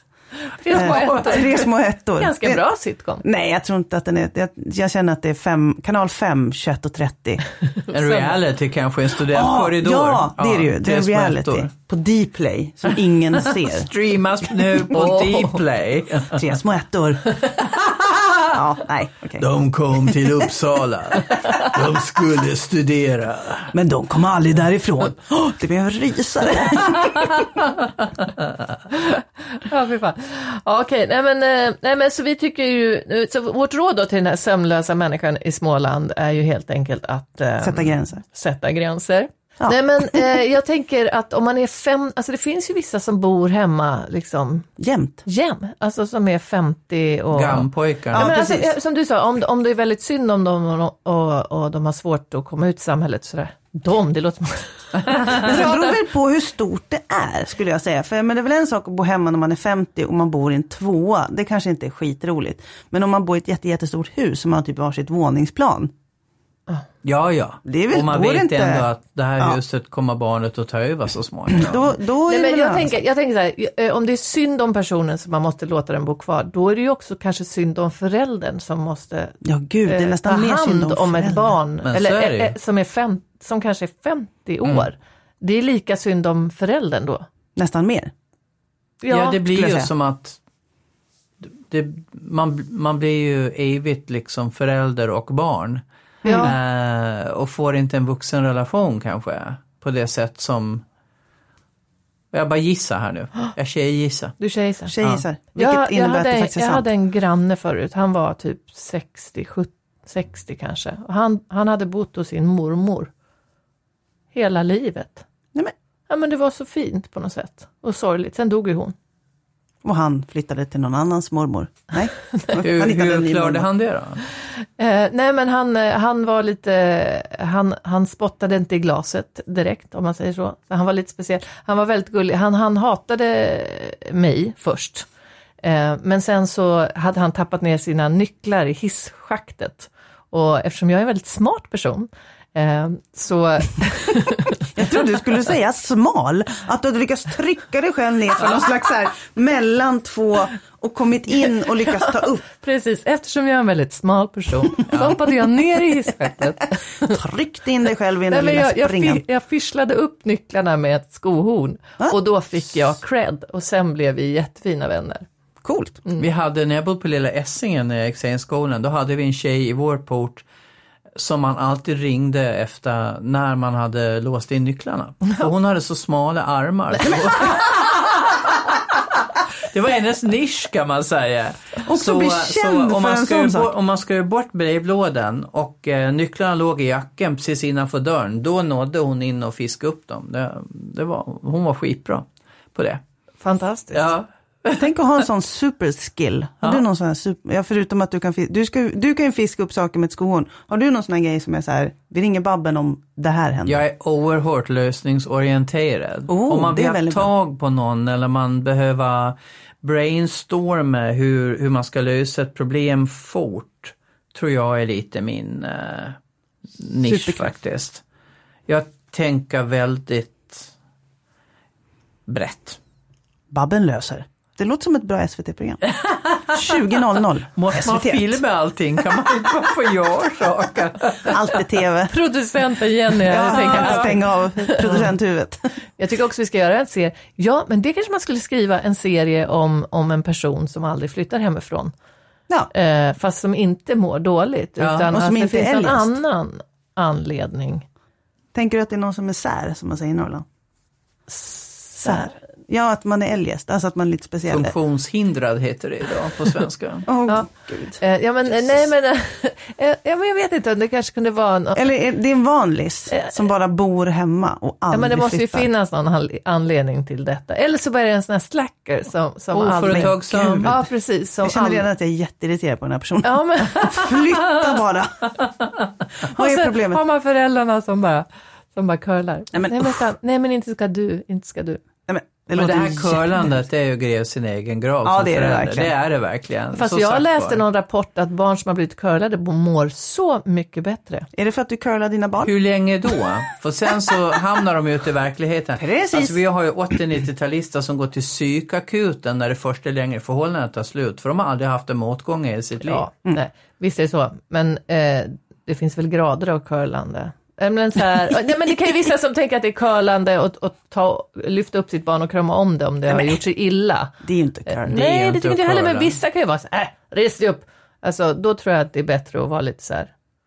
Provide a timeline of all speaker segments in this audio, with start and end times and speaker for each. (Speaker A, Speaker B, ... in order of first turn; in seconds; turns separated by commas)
Speaker A: 0.5-1.7, Speaker B: 0.7-1.5, Speaker C: 0.7-2.6, Speaker A: 2.2-3.2, Speaker C: 3.2-7.4, Speaker A: 7.8-8.4, Speaker B: 7.9-11.7, Speaker C: 9.2-13.9, Speaker B: 13.7-16.4, Speaker C: 16.3-17.4, Speaker B: 17.6-18.4, Speaker C: 18.5-19.5, Speaker B: 19.4-23.7, Speaker C: 23.7-27.4, Speaker A: 28.9-44.7, Speaker C: 37.6-38.2, Speaker C: 39.6-40.2, Speaker C: 44.8-45.2, Speaker A: 45.2-55.9, Speaker B: 47.3-48.3, Speaker C: 48.1-48.7, Speaker C: 55.3-65.9, Speaker B: 67.0-72.0, Speaker C: 67.7-68.9, Speaker C: 71.5-73.0, Speaker A: 72.2-87.2, Speaker C: 79.4-81.6, Speaker B: 81.8-82.5, Speaker C: 87.5-88.1, Speaker A: 89.0-89.4, Speaker B: 89.1-90.4, Speaker C: 89.5-89.9, Speaker B: 91.4-100.8, Speaker A: 96.2-96.5, Speaker C: 96.2-96.5, Speaker B: 102.3-104.4, Speaker A: 104.4-104.9, Speaker C: 104.9-106.9, Speaker A: 105.5-113.1, Speaker A: 114.3-115.2, Speaker A: 116.1-118.9, Speaker C: 119.8-123.7, Speaker B: 122.6-124.2, Speaker A: 124.8-135.1, Speaker A: 135.6-144.6, Speaker C: 144.7-152.4, Speaker A: 151.9-157.2, Speaker B: 154.9-155.2, Speaker C: 157.0-159.2, Speaker A: 158.3-165.3, Speaker C: 165.6-166.0, Speaker B: 166.2-170.4, Speaker B: 171.2-193.0, Speaker C: 181.8-183.7, Speaker A: 193.4-194.1, Speaker B: 193.9-194.8, Speaker C: 194.7-203.8, Speaker B: 203.7-216.2, Speaker C: 206.3-207.3, Speaker B: 216.8-218.0, Speaker C: 217.0-217.5, Speaker B: 218.7-220.7, Speaker B: 222.3-222.8, Speaker C: 223.5-225.9, Speaker B: 225.9-226.6, Speaker C: 226.5-228.4, Speaker B: 227.6-231.4, Speaker C: 231.3-232.1, Speaker A: 232.1-235.0, Speaker C: 233.2-235.7, Speaker B: 233.5-234.1, Speaker A: 236.0-241.9, Speaker A: 242.7-247.8, Speaker B: 244.8-245.1, Speaker C: 245.1-246.1, Speaker C: 248.5-250.4, Speaker A: 251.3-252.3, Speaker C: 252.0-254.7, Speaker B: 254.5-257.1, Speaker C: 257.1-258.8, Speaker A: 258.0-261.8, Speaker C: 261.7-265.7, Speaker A: 264.9-271.8, Speaker B: 269.5-270.7, Speaker C: 269.9-270.9, Speaker C: 271.4-275.3, Speaker A: 273.2-274.1, Speaker C: 276.2-277.0, Speaker A: 276.3-281.8, Speaker C: 279.5-279.9, Speaker C: 282.1-283.5, Speaker B: 282.5-287.6, Speaker C: 285.0-285.9, Speaker A: 286.7-291.3, Speaker C: 291.3-292.5, Speaker B: 292.4-303.0, Speaker C: 295.8-296.4, Speaker A: 302.8-320.1, Speaker C: 313.1-313.4, Speaker C: 314.2-314.9, Speaker B: 314.9-316.1